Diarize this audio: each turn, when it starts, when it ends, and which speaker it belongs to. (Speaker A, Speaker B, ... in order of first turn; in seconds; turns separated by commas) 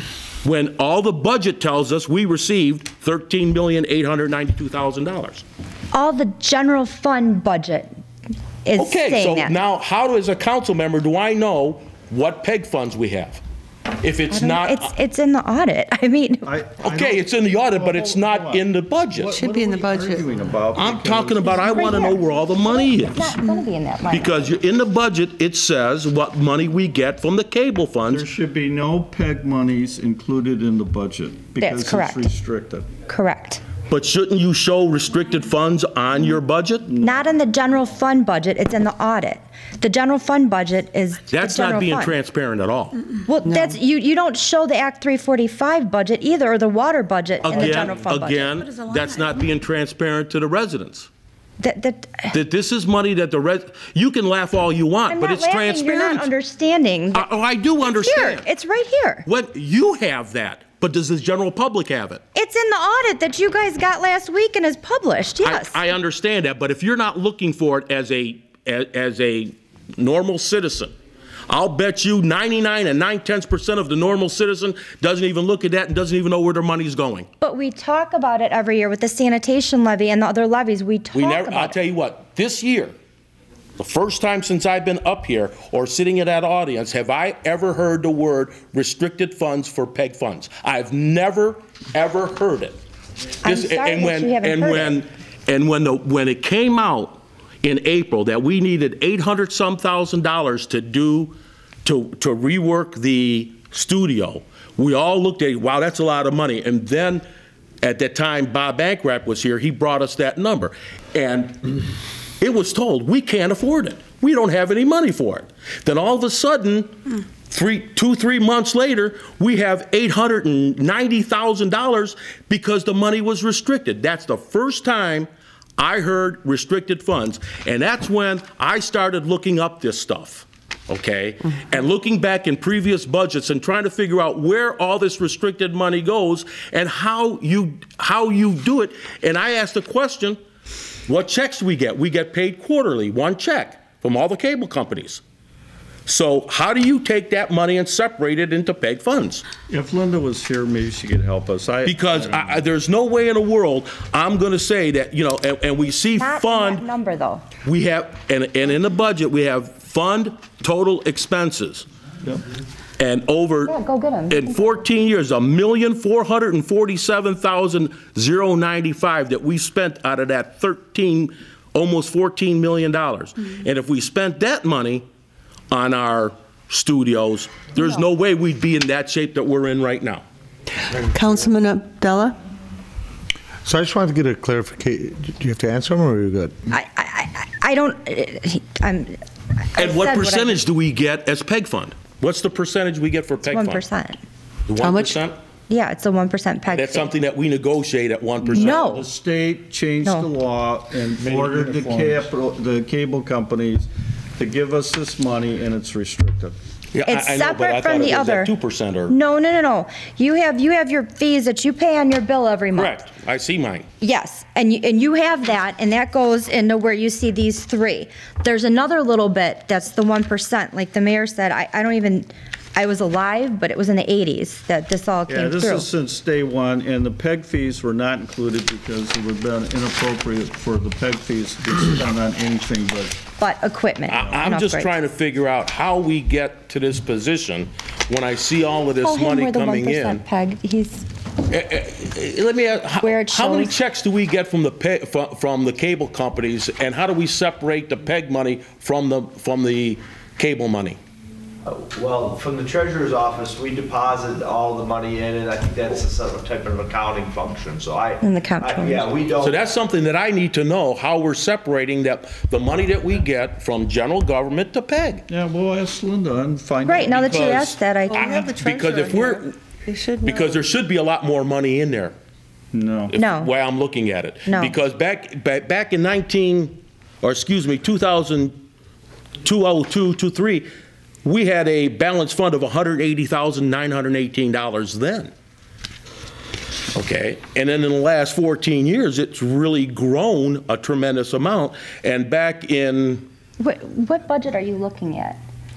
Speaker A: 0.4-5.4, Speaker B: 5.9-7.9, Speaker B: 8.6-9.5, Speaker A: 8.8-13.4, Speaker A: 14.0-14.9, Speaker B: 14.3-16.5, Speaker C: 16.4-21.9, Speaker A: 16.8-19.3, Speaker D: 19.3-20.2, Speaker A: 20.7-23.4, Speaker B: 21.5-24.4, Speaker A: 24.1-28.2, Speaker C: 28.1-32.9, Speaker B: 31.6-32.2, Speaker B: 33.1-33.6, Speaker A: 33.9-36.9, Speaker C: 36.9-37.3, Speaker B: 37.0-42.1, Speaker A: 41.3-43.0, Speaker B: 43.3-48.6, Speaker A: 47.4-51.1, Speaker B: 51.6-52.3, Speaker A: 52.3-56.3, Speaker B: 55.1-57.3, Speaker A: 57.1-58.4, Speaker B: 57.8-59.2, Speaker A: 59.2-62.2, Speaker B: 62.3-65.8, Speaker A: 65.4-70.9, Speaker A: 71.5-77.3, Speaker B: 77.4-81.8, Speaker A: 81.1-82.9, Speaker A: 83.8-92.8, Speaker B: 93.4-95.0, Speaker A: 93.4-107.2, Speaker A: 107.8-111.8, Speaker A: 112.4-140.4, Speaker A: 141.1-145.2, Speaker A: 146.1-149.4, Speaker C: 149.7-152.7, Speaker A: 151.8-156.9, Speaker B: 156.2-157.4, Speaker A: 157.6-161.8, Speaker A: 163.0-163.7, Speaker B: 163.7-164.7, Speaker A: 164.3-175.0, Speaker A: 175.7-180.2, Speaker D: 180.9-182.4, Speaker E: 183.6-186.6, Speaker B: 186.7-189.2, Speaker B: 189.7-190.6, Speaker A: 189.8-193.8, Speaker B: 193.4-194.2, Speaker A: 194.7-195.4, Speaker D: 194.8-195.2, Speaker B: 195.7-197.1, Speaker A: 196.7-198.8, Speaker C: 198.4-206.6, Speaker B: 198.5-199.1, Speaker A: 206.9-209.2, Speaker B: 207.0-208.5, Speaker B: 209.1-213.0, Speaker A: 212.7-213.9, Speaker B: 214.0-225.9, Speaker C: 225.3-233.2, Speaker B: 233.4-234.9, Speaker A: 234.1-240.2, Speaker B: 239.0-241.0, Speaker A: 241.5-251.0, Speaker B: 243.0-243.8, Speaker F: 251.7-259.6, Speaker B: 258.2-259.1, Speaker A: 259.4-265.2, Speaker C: 265.3-267.6, Speaker B: 266.8-268.4, Speaker A: 267.0-269.6, Speaker D: 268.1-270.6, Speaker A: 270.2-272.1, Speaker C: 272.7-273.1, Speaker A: 273.1-278.6, Speaker B: 273.2-273.5, Speaker B: 274.4-274.8, Speaker A: 279.4-280.7, Speaker A: 281.2-285.3, Speaker A: 286.9-293.2, Speaker B: 293.6-295.4